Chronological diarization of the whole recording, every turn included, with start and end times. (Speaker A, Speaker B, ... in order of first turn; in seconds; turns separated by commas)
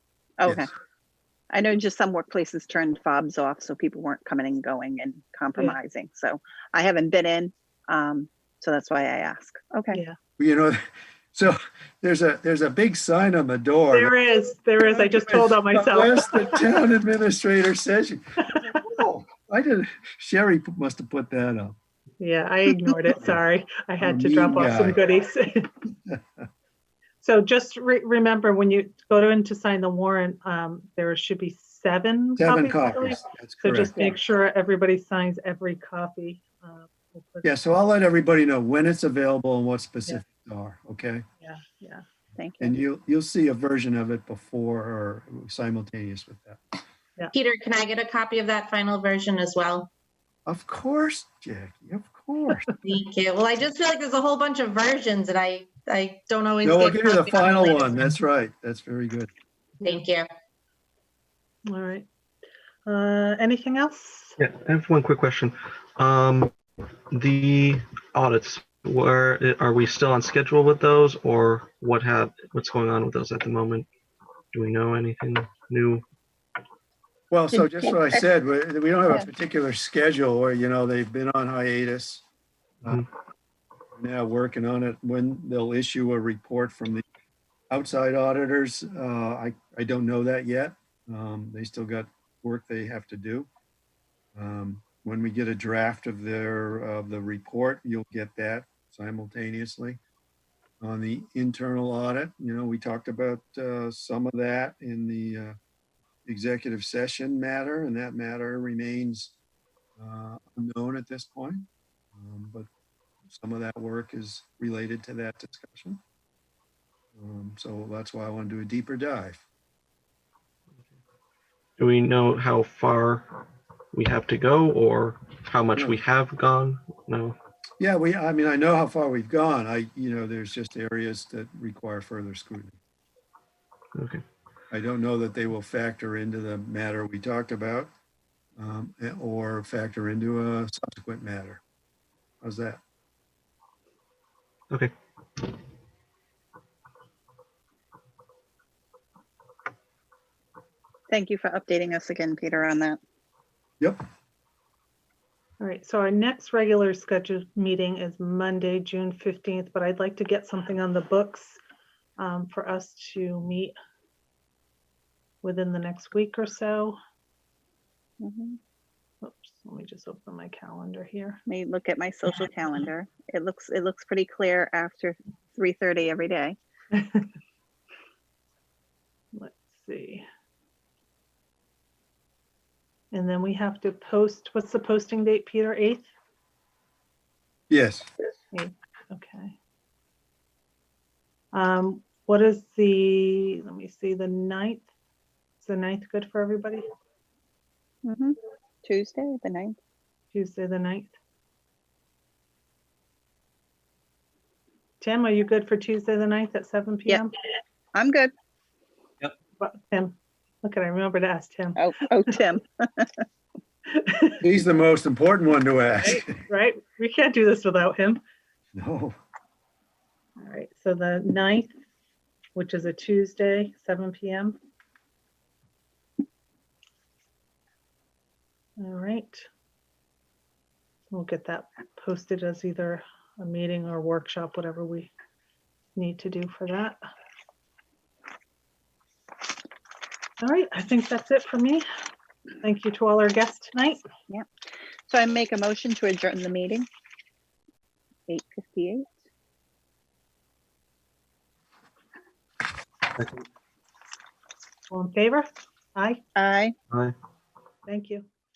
Speaker A: 0.4-0.7, Speaker B: 0.5-0.7, Speaker A: 1.5-10.0, Speaker B: 10.4-14.2, Speaker C: 13.9-16.6, Speaker B: 14.8-21.8, Speaker C: 18.5-18.8, Speaker C: 22.2-25.7, Speaker B: 24.0-25.0, Speaker C: 27.2-37.5, Speaker B: 32.4-34.1, Speaker B: 37.4-41.2, Speaker C: 41.4-42.0, Speaker A: 42.4-42.7, Speaker B: 42.6-46.8, Speaker D: 47.3-49.9, Speaker B: 50.5-52.7, Speaker D: 52.8-58.0, Speaker B: 56.6-59.3, Speaker D: 59.8-60.3, Speaker C: 61.7-62.1, Speaker C: 62.9-64.4, Speaker E: 64.4-66.5, Speaker E: 67.1-73.9, Speaker E: 74.5-76.0, Speaker B: 77.3-82.2, Speaker A: 77.6-78.2, Speaker B: 83.9-87.0, Speaker B: 87.7-93.5, Speaker B: 94.3-100.0, Speaker B: 100.8-105.5, Speaker B: 106.2-109.3, Speaker B: 110.0-112.7, Speaker B: 113.3-116.0, Speaker B: 117.2-119.4, Speaker E: 121.8-127.4, Speaker B: 127.8-132.8, Speaker E: 133.9-134.2, Speaker B: 134.7-137.9, Speaker B: 138.6-141.6, Speaker B: 142.4-142.8, Speaker A: 151.1-153.0, Speaker C: 155.6-161.6, Speaker C: 162.2-163.8, Speaker C: 165.4-167.0, Speaker A: 168.2-168.6, Speaker C: 169.2-171.4, Speaker A: 171.5-176.6, Speaker C: 176.9-177.3, Speaker C: 179.3-180.2, Speaker C: 183.1-186.1, Speaker B: 187.7-188.1, Speaker C: 188.5-189.6, Speaker C: 191.5-194.9, Speaker C: 195.6-196.8, Speaker A: 198.1-199.8, Speaker C: 200.3-201.1, Speaker C: 205.0-207.3, Speaker A: 207.9-208.3, Speaker C: 209.6-212.3, Speaker A: 211.8-213.2, Speaker C: 213.9-214.4, Speaker B: 214.4-216.4, Speaker C: 216.0-218.2, Speaker B: 218.8-219.2, Speaker C: 220.4-221.7, Speaker C: 222.6-224.6, Speaker C: 228.8-229.5, Speaker C: 231.1-235.1, Speaker C: 236.0-237.0, Speaker C: 240.4-241.9, Speaker C: 242.6-244.0, Speaker A: 245.1-246.9, Speaker A: 248.3-249.1, Speaker E: 253.2-253.4, Speaker C: 254.9-256.2, Speaker A: 256.4-256.7, Speaker C: 257.9-258.2